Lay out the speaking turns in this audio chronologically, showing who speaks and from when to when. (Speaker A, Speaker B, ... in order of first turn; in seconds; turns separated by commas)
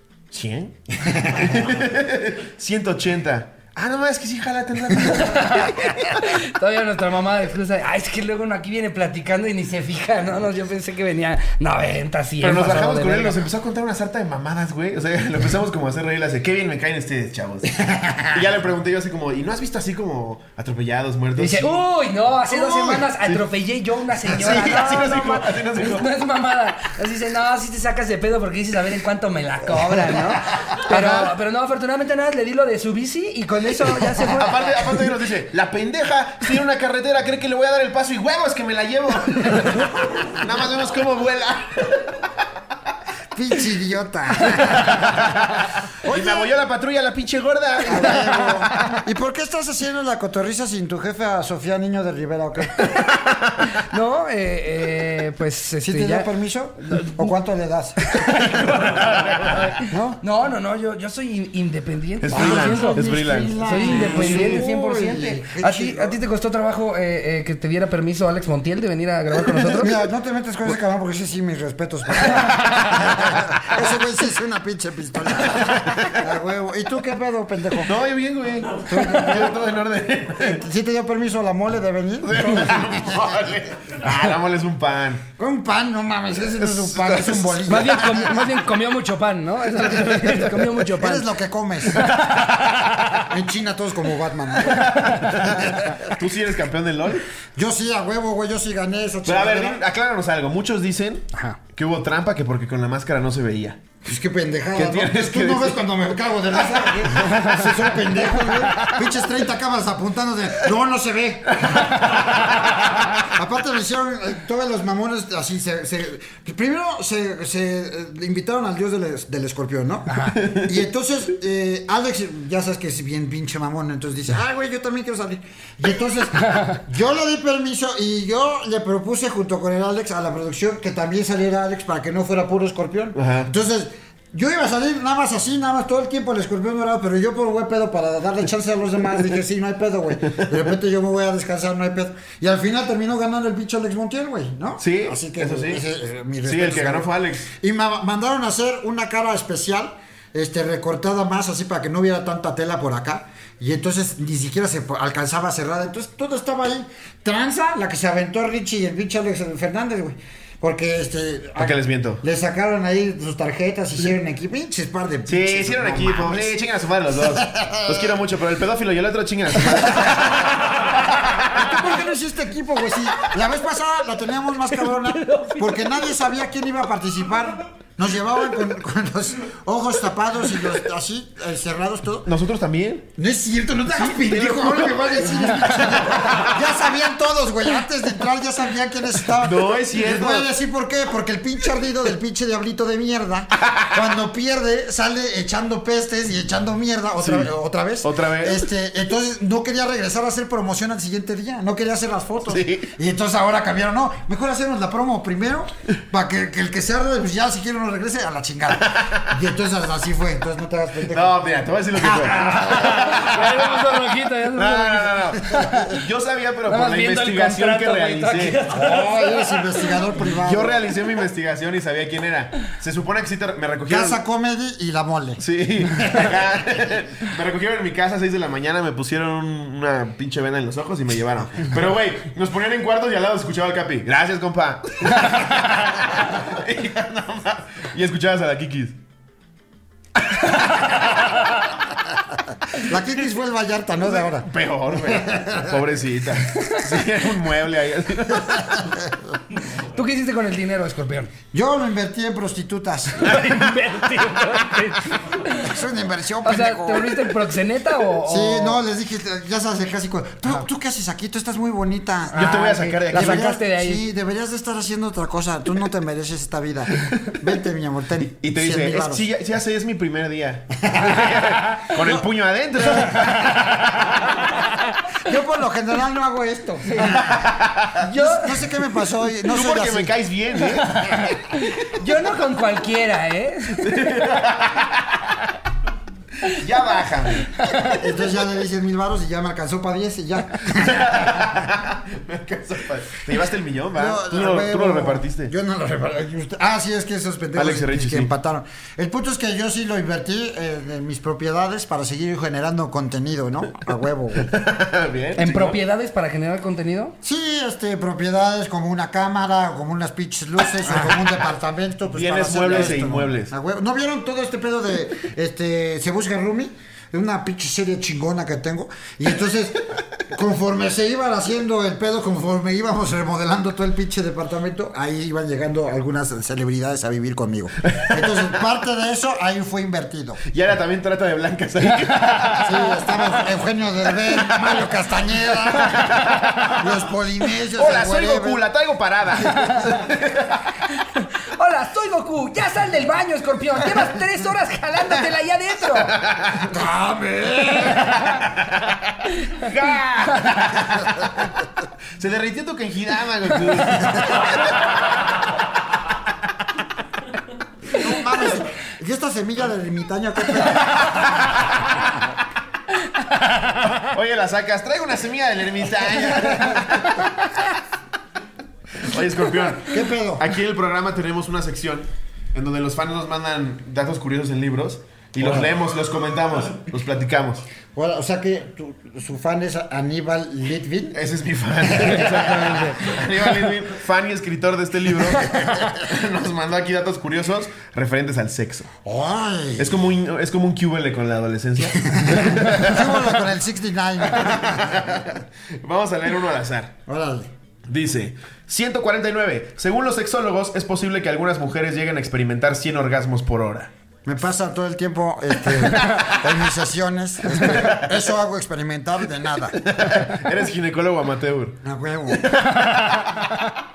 Speaker A: 0.3-6.3, Speaker B: 5.0-13.4, Speaker A: 12.4-21.8, Speaker C: 17.8-18.4, Speaker B: 21.4-35.1, Speaker C: 22.5-23.1, Speaker A: 24.2-26.1, Speaker A: 30.8-31.3, Speaker A: 34.1-42.3, Speaker C: 43.3-45.2, Speaker A: 44.5-48.6, Speaker C: 46.0-46.5, Speaker C: 47.8-53.1, Speaker A: 52.8-53.7, Speaker B: 53.7-57.3, Speaker C: 55.8-59.1, Speaker B: 58.0-63.1, Speaker A: 59.1-59.6, Speaker C: 59.9-60.2, Speaker A: 62.2-64.7, Speaker C: 62.3-66.2, Speaker B: 63.6-69.9, Speaker C: 69.5-77.9, Speaker B: 72.3-72.9, Speaker A: 75.6-76.2, Speaker A: 77.8-80.6, Speaker C: 78.9-79.6, Speaker C: 80.4-83.5, Speaker A: 82.2-85.2, Speaker C: 85.4-88.5, Speaker A: 86.6-87.9, Speaker B: 87.7-91.3, Speaker C: 90.2-92.2, Speaker B: 91.9-93.2, Speaker C: 93.2-96.2, Speaker B: 94.7-95.5, Speaker A: 94.7-97.3, Speaker C: 97.5-99.8, Speaker A: 99.3-103.8, Speaker C: 104.0-166.6, Speaker A: 104.8-105.8, Speaker A: 106.9-107.8, Speaker A: 108.5-109.0, Speaker A: 111.6-112.9, Speaker B: 120.1-120.4, Speaker A: 120.4-120.7, Speaker A: 133.2-133.5, Speaker A: 144.8-145.8, Speaker A: 146.5-147.5, Speaker A: 161.6-162.2, Speaker A: 165.3-171.6, Speaker C: 167.1-168.2, Speaker C: 169.8-170.7, Speaker C: 171.5-182.3, Speaker B: 175.0-175.8, Speaker A: 182.3-183.1, Speaker C: 183.2-211.4, Speaker A: 184.0-186.6, Speaker A: 189.4-190.5, Speaker A: 193.6-193.9, Speaker A: 197.2-197.5, Speaker A: 198.0-198.7, Speaker A: 202.5-202.9, Speaker A: 208.9-209.3, Speaker A: 211.1-213.9, Speaker C: 211.9-213.4, Speaker B: 212.3-216.0, Speaker A: 214.5-218.6, Speaker C: 215.5-215.8, Speaker B: 216.7-220.1, Speaker C: 218.7-220.8, Speaker A: 220.2-224.2, Speaker C: 223.9-226.3, Speaker A: 225.4-239.0, Speaker B: 240.5-241.5, Speaker C: 242.7-245.8, Speaker A: 244.1-249.0, Speaker B: 246.5-246.8, Speaker C: 248.6-249.2, Speaker B: 249.7-251.3, Speaker C: 251.5-253.4, Speaker B: 253.2-255.7, Speaker C: 255.5-257.3, Speaker B: 256.4-258.8, Speaker C: 258.2-269.3, Speaker B: 262.3-264.0, Speaker A: 262.3-263.5, Speaker A: 267.1-267.3, Speaker A: 268.4-274.2, Speaker C: 270.8-271.4, Speaker C: 272.0-272.2, Speaker B: 273.2-273.9, Speaker C: 275.2-277.4, Speaker A: 277.0-278.1, Speaker B: 278.0-278.7, Speaker C: 278.1-280.2, Speaker A: 279.4-281.2, Speaker B: 280.8-284.1, Speaker A: 283.8-285.3, Speaker A: 286.4-288.0, Speaker B: 287.6-288.0, Speaker C: 287.9-291.5, Speaker A: 290.7-295.5, Speaker C: 293.9-304.6, Speaker A: 297.6-298.3, Speaker A: 304.4-305.8, Speaker B: 305.4-307.2, Speaker C: 307.2-330.4, Speaker A: 312.1-313.5, Speaker A: 330.5-333.3, Speaker C: 332.6-338.6, Speaker A: 335.9-336.9, Speaker A: 337.7-340.6, Speaker B: 339.5-339.9, Speaker B: 340.9-346.2, Speaker A: 346.1-346.7, Speaker C: 346.6-348.3, Speaker A: 349.5-351.3, Speaker A: 352.2-354.8, Speaker C: 357.9-362.2, Speaker A: 363.8-367.3, Speaker A: 369.0-377.7, Speaker C: 369.7-370.5, Speaker C: 375.4-375.7, Speaker C: 377.9-381.2, Speaker A: 381.1-388.9, Speaker C: 381.8-382.4, Speaker B: 382.0-383.1, Speaker C: 389.0-390.0, Speaker A: 389.8-393.4, Speaker C: 392.1-395.3, Speaker A: 394.3-396.9, Speaker C: 397.1-397.5, Speaker A: 397.9-403.9, Speaker C: 404.3-409.8, Speaker A: 407.6-408.1, Speaker A: 409.8-411.8, Speaker C: 411.8-412.6, Speaker B: 412.7-413.3